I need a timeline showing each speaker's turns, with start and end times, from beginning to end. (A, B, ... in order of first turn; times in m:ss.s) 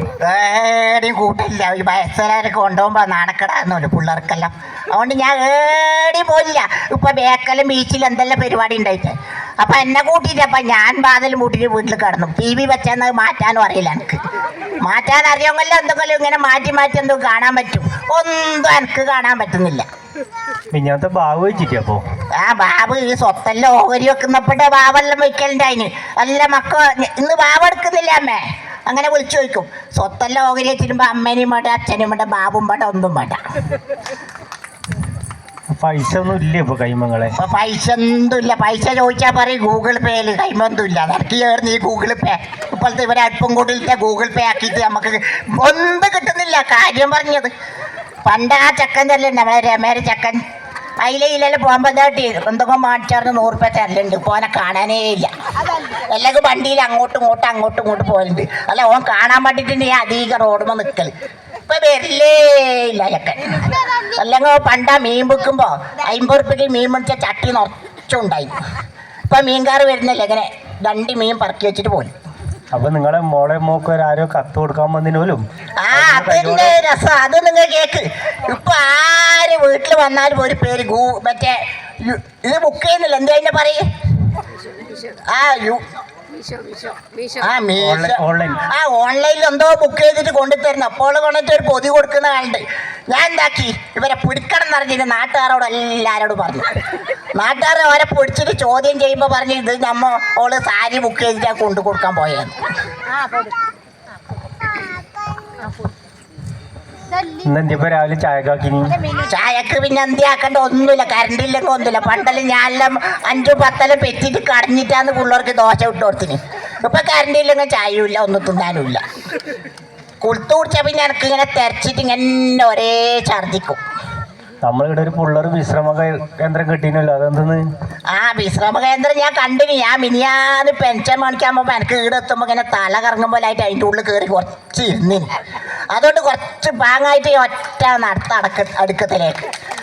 0:00.2-0:14.2 A
0:14.8-0:19.8 A
0:20.7-0:22.0 B
0:22.4-0:33.4 A
0:35.7-0:37.3 B
0:37.4-0:47.5 A
0:48.2-0:50.4 A
0:51.0-0:55.3 A
0:56.1-1:01.1 A
1:01.7-1:08.5 A
1:09.3-1:12.1 A
1:12.7-1:16.8 B
1:15.8-1:23.8 A
1:25.3-1:25.8 A
1:27.4-1:36.7 A
1:27.8-1:28.6 B
1:37.3-1:42.6 A
1:47.4-1:49.0 B
1:49.2-1:59.0 A
2:00.2-2:03.8 A
2:04.6-2:07.6 B
2:08.1-2:15.3 A
2:15.9-2:19.4 A